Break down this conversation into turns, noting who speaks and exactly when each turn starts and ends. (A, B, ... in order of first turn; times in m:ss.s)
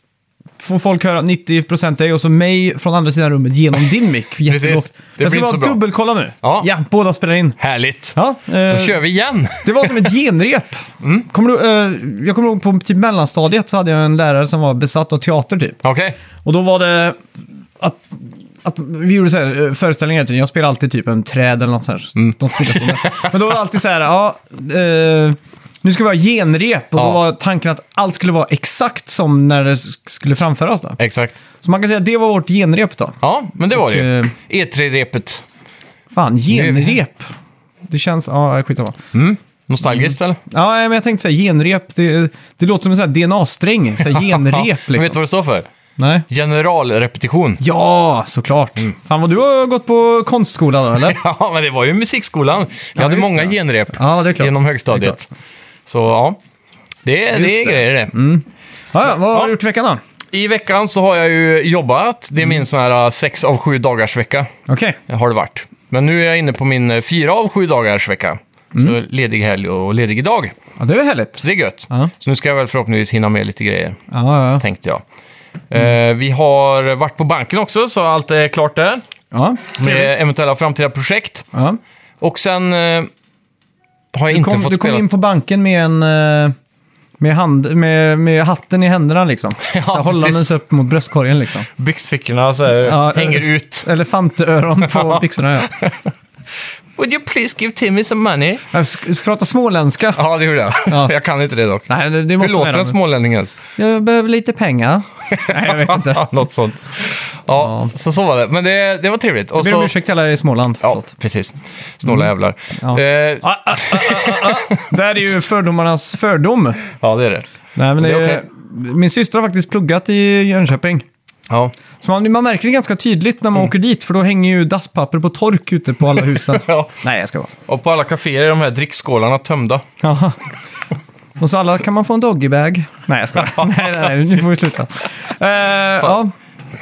0:00.6-0:07.6 A
0:04.5-0:05.8 B
0:06.4-0:06.7 B
0:07.6-0:10.1 B
0:08.1-0:09.0 A
0:09.6-0:15.8 A
0:15.8-0:16.2 B
0:16.4-0:17.2 A
0:17.8-0:31.0 A
0:22.2-0:23.3 B
0:31.0-0:31.4 B
0:31.6-0:33.1 A
0:33.2-0:35.4 B
0:33.7-0:34.3 A
0:36.1-0:37.3 A
0:36.5-0:36.9 B
0:37.8-0:39.0 A
0:39.1-0:40.4 B
0:39.9-0:45.2 A
0:44.1-0:45.7 B
0:46.0-0:46.2 A
0:46.3-0:47.6 B
0:47.6-0:51.2 A
0:51.0-0:55.2 B
0:53.0-0:55.2 A
0:55.9-0:56.4 B
0:57.0-0:58.2 B
0:57.3-1:00.0 A
1:00.3-1:04.5 B
1:04.7-1:05.0 A
1:05.1-1:10.6 B
1:10.8-1:12.1 A
1:11.4-1:14.0 B
1:14.1-1:14.6 A
1:14.6-1:15.0 B
1:15.7-1:19.0 B
1:19.3-1:20.1 A
1:19.8-1:21.5 B
1:21.5-1:21.8 A
1:22.2-1:23.1 B
1:24.1-1:25.1 B
1:24.3-1:26.5 A
1:27.2-1:31.7 A
1:29.6-1:30.5 B
1:31.8-1:33.9 B
1:32.8-1:35.7 A
1:34.9-1:36.1 B
1:37.0-1:38.6 B
1:38.7-1:40.2 A
1:40.1-1:43.6 B
1:40.8-1:41.1 A
1:41.9-1:42.9 A
1:43.8-1:46.3 A
1:45.3-1:49.9 B
1:47.6-1:47.9 A
1:49.6-1:51.1 A
1:50.8-1:54.9 B
1:52.0-1:56.8 A
1:57.0-1:58.4 B
1:57.8-2:01.0 A
2:02.0-2:07.5 A
2:06.3-2:07.0 B
2:07.7-2:09.8 B
2:10.0-2:10.4 A
2:11.4-2:16.3 A